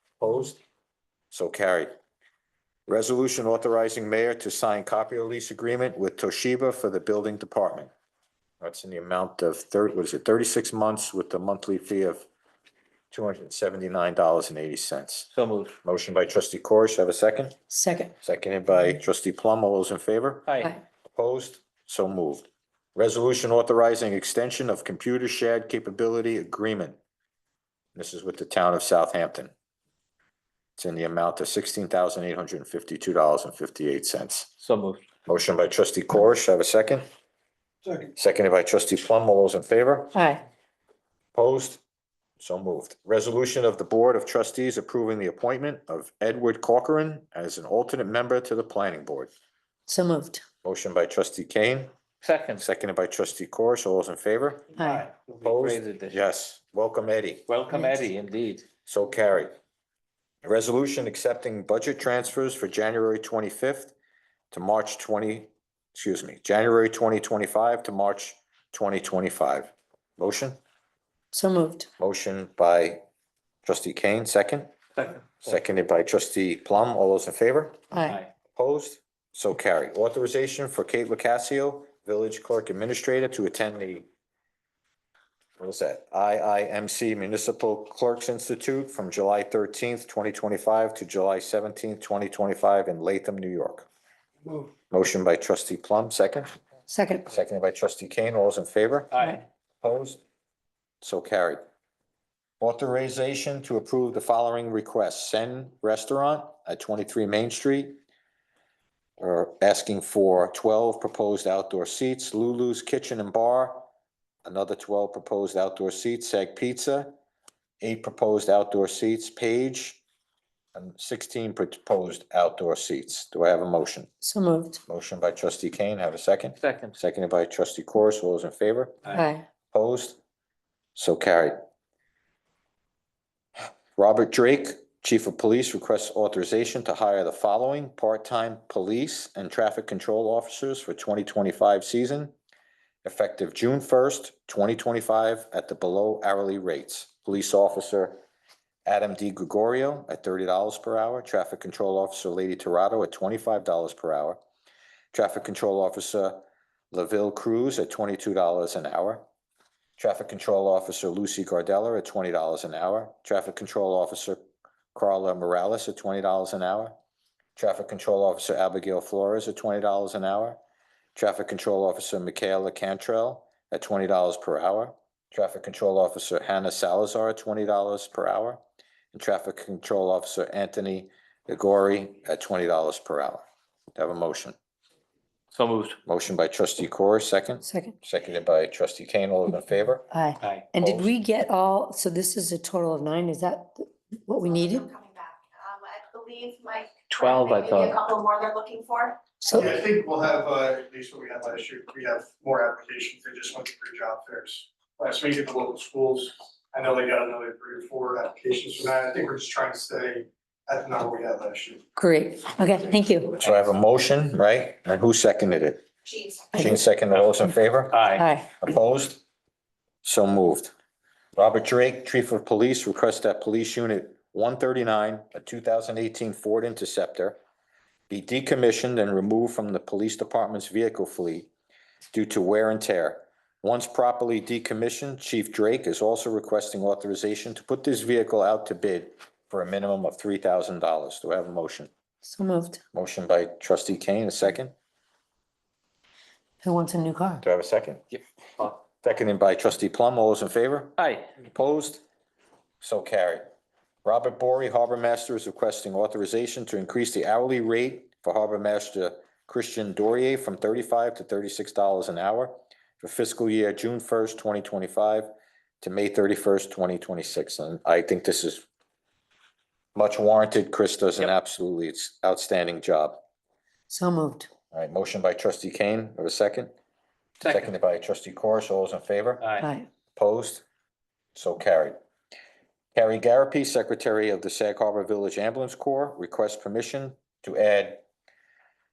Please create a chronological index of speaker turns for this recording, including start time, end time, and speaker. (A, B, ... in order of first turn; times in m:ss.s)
0:00.2-0:00.6 A
0:01.3-0:01.9 A
0:02.9-0:07.9 A
0:08.6-0:12.2 A
0:13.1-0:15.3 A
0:15.3-0:15.7 B
0:15.8-0:17.6 A
0:17.7-0:18.1 C
0:18.2-0:20.5 A
0:20.4-0:20.7 B
0:21.1-0:27.0 A
0:28.0-0:29.5 A
0:30.8-0:34.5 A
0:34.6-0:35.0 B
0:35.3-0:37.0 A
0:38.2-0:40.1 A
0:40.1-0:40.4 C
0:41.3-0:41.8 A
0:42.4-0:49.3 A
0:49.9-0:50.4 C
0:50.6-0:51.9 A
0:52.2-0:52.6 B
0:52.6-0:54.7 A
0:54.7-0:55.1 C
0:54.8-0:56.2 B
0:55.4-0:57.5 A
0:57.5-0:58.7 B
0:58.9-0:59.6 A
1:00.4-1:03.9 A
1:04.5-1:10.6 A
1:11.3-1:11.9 C
1:12.0-1:13.0 A
1:13.6-1:14.7 A
1:15.4-1:24.0 A
1:17.9-1:18.2 C
1:25.6-1:33.9 A
1:34.9-1:36.5 A
1:36.9-1:37.3 C
1:37.3-1:39.2 A
1:39.1-1:39.4 B
1:39.8-1:40.2 A
1:41.0-1:41.6 A
1:42.6-1:48.0 A
1:49.2-1:53.8 A
1:54.4-1:57.1 A
1:57.8-2:00.0 A
2:00.7-2:04.1 A
2:04.2-2:04.8 C
2:04.9-2:09.0 A
2:06.6-2:06.9 B
2:09.1-2:09.4 C
2:09.7-2:10.2 A
2:10.9-2:11.6 A
2:13.6-2:22.3 A
2:23.0-2:28.2 A
2:28.8-2:34.4 A
2:35.1-2:39.2 A
2:40.0-2:44.4 A
2:44.9-2:46.9 A
2:47.6-2:50.6 A
2:51.2-2:58.6 A
2:59.1-3:03.4 A
3:04.0-3:04.6 A
3:05.5-3:06.0 B
3:06.1-3:10.1 A
3:07.6-3:07.9 C
3:10.1-3:14.9 C
3:10.8-3:11.1 A
3:14.4-3:19.4 D
3:17.1-3:18.0 B
3:19.4-3:19.8 C
3:19.5-3:31.8 E
3:32.0-3:33.4 C
3:33.4-3:35.8 A
3:36.5-3:36.8 C
3:36.5-3:39.2 A
3:37.9-3:38.2 B
3:38.1-3:38.5 C
3:40.0-3:40.7 A
3:41.4-3:47.4 A
3:48.1-3:51.5 A
3:52.1-4:01.9 A
4:02.2-4:02.8 C
4:02.9-4:04.7 A
4:06.6-4:07.4 C
4:07.4-4:08.0 A
4:09.0-4:12.0 A
4:11.0-4:11.3 B
4:12.8-4:13.4 A
4:14.0-4:25.3 A
4:25.8-4:28.6 A
4:29.9-4:33.2 A
4:33.9-4:34.5 C
4:34.7-4:36.7 A
4:37.4-4:37.7 B
4:37.4-4:39.4 A
4:39.4-4:39.6 B
4:39.6-4:39.9 C
4:40.2-4:40.6 A
4:41.3-4:42.0 A
4:42.9-4:48.0 A